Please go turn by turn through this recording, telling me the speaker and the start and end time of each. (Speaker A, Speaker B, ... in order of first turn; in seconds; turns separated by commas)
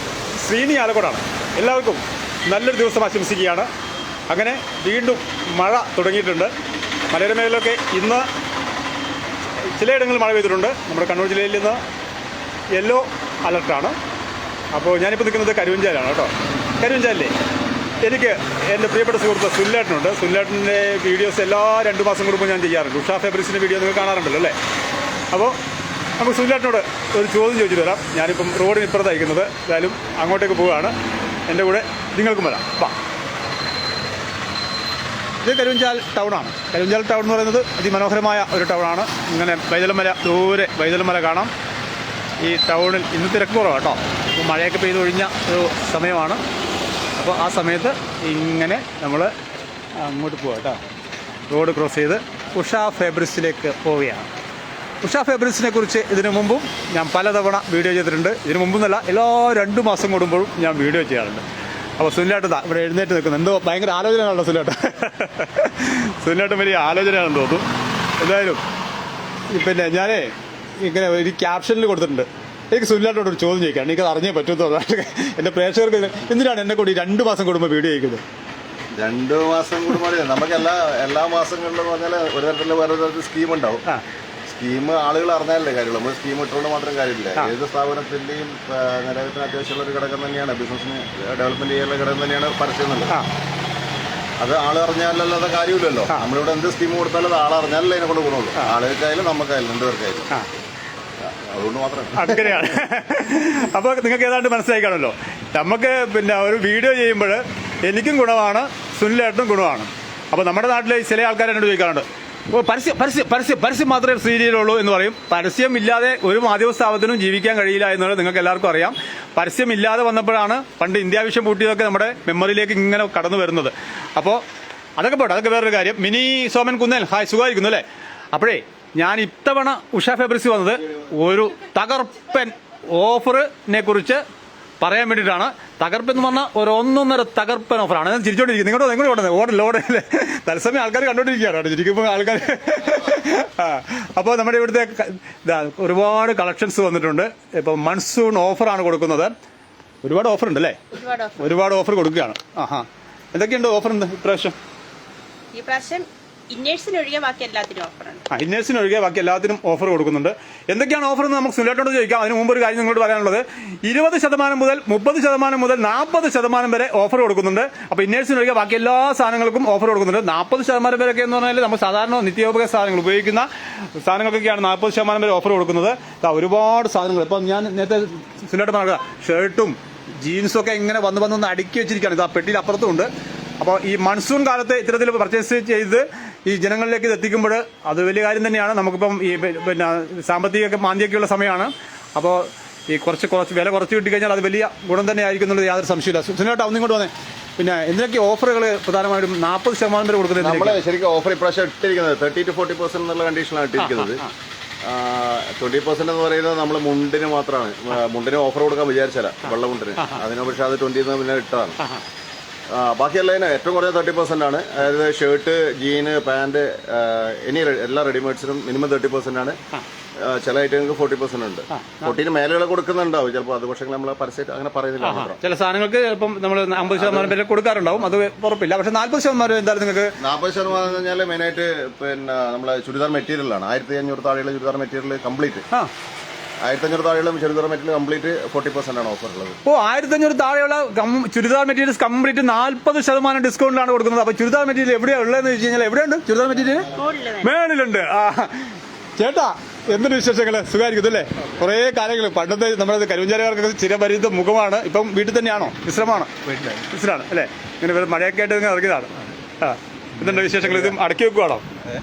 Speaker A: 0.3-3.7, Speaker A: 4.3-6.5, Speaker A: 7.1-8.3, Speaker A: 9.6-11.8, Speaker A: 12.7-13.9, Speaker A: 14.7-17.3, Speaker A: 18.0-24.6, Speaker A: 25.3-25.6, Speaker A: 26.2-30.9, Speaker A: 31.5-33.0, Speaker A: 35.4-41.5, Speaker A: 42.4-46.4, Speaker A: 47.2-49.3, Speaker A: 50.0-50.8, Speaker A: 51.5-54.3, Speaker A: 55.0-61.4, Speaker A: 62.0-67.7, Speaker A: 68.2-68.6, Speaker A: 69.5-78.2, Speaker B: 78.9-83.8, Speaker B: 84.5-93.2, Speaker B: 94.4-100.3, Speaker B: 101.2-102.7, Speaker A: 102.2-124.4, Speaker A: 125.0-134.2, Speaker A: 134.8-149.3, Speaker A: 150.0-154.6, Speaker C: 150.9-151.4, Speaker C: 155.5-158.2, Speaker A: 158.3-200.8, Speaker B: 200.4-204.2, Speaker A: 203.8-204.3, Speaker B: 204.8-211.8, Speaker B: 212.7-219.6, Speaker B: 220.2-225.4, Speaker A: 221.7-222.1, Speaker A: 225.0-230.1, Speaker B: 226.9-227.3, Speaker B: 230.2-235.6, Speaker B: 236.6-239.6, Speaker A: 239.6-261.7, Speaker C: 246.9-247.5, Speaker B: 260.4-260.9